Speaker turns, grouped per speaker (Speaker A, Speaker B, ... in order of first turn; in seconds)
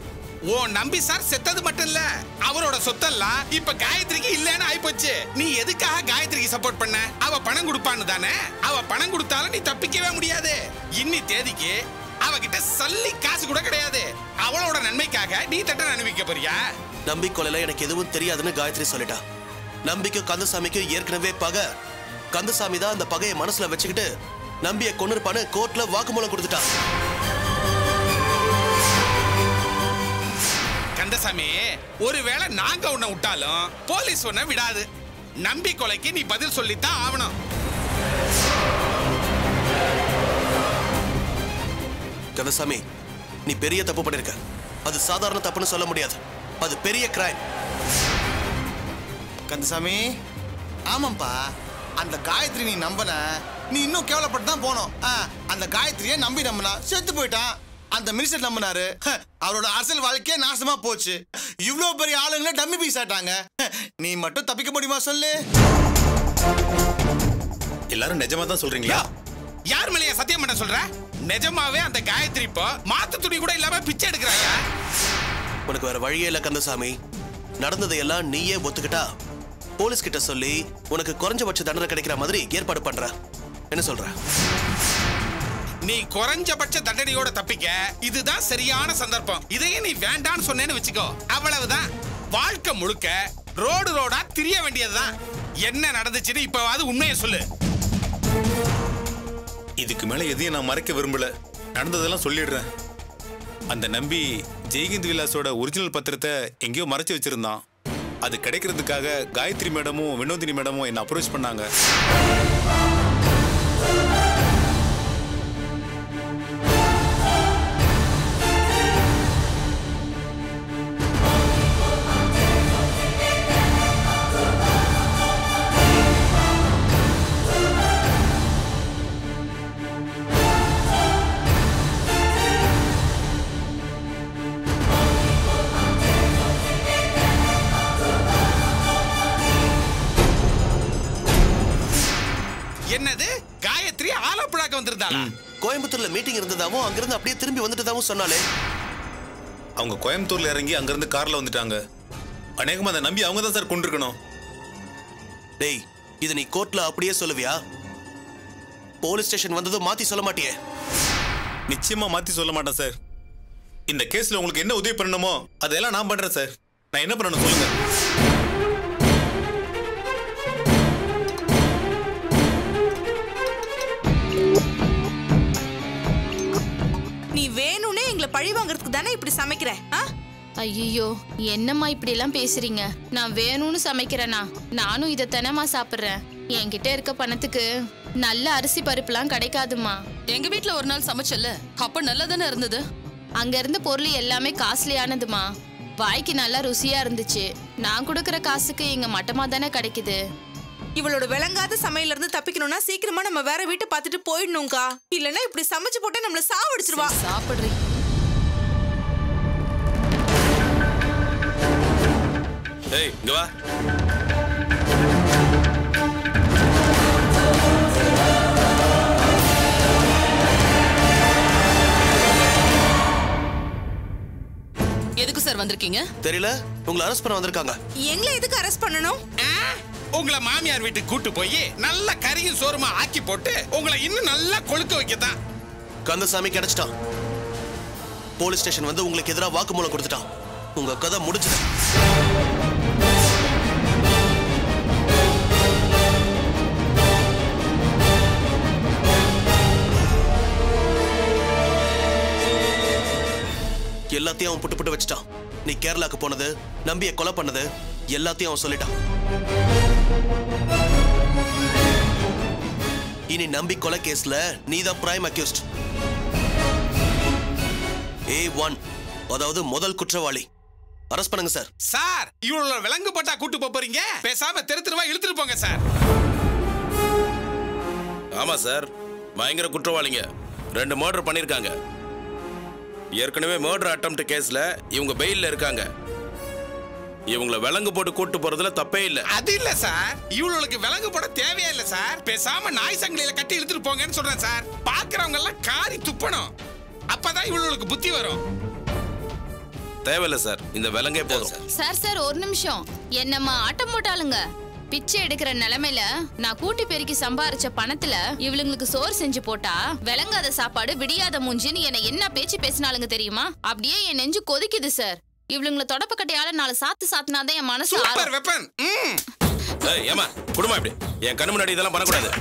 Speaker A: 0.5-16.6, 31.0-34.9, 35.4-37.3, 69.7-74.6, 85.8-95.1, 95.6-97.4, 142.9-145.3, 229.4-235.3, 271.9-275.8, 289.3-296.5, 297.1-298.4, 317.9-319.2
Speaker B: 17.1-19.2, 19.9-21.6, 22.3-24.1, 24.6-26.7, 42.4-42.8, 43.5-47.4, 75.7-76.9, 77.6-79.1, 79.8-83.1, 83.7-84.1, 145.6-148.4, 155.6-157.6, 159.0-160.5, 226.2-227.8, 236.0-236.9, 238.4-241.6, 254.1-258.9, 263.3-265.6, 268.3-268.8, 269.3-270.4, 271.1-271.7
Speaker C: 49.5-50.0, 50.9-51.4, 52.0-65.3
Speaker D: 67.9-69.0, 99.8-102.6, 103.7-107.6, 108.2-111.7, 149.8-151.8, 152.6-154.2, 161.7-162.9, 163.9-167.7
Speaker E: 177.3-180.0, 201.0-207.2, 228.1-229.2
Speaker F: 180.6-187.6, 188.2-190.0, 193.4-195.5, 196.0-200.2, 301.7-318.3
Speaker G: 190.3-192.8, 206.8-207.7, 225.2-226.0
Speaker H: 278.3-281.7, 283.1-285.9, 287.3-289.2, 300.0-301.6, 319.9-322.3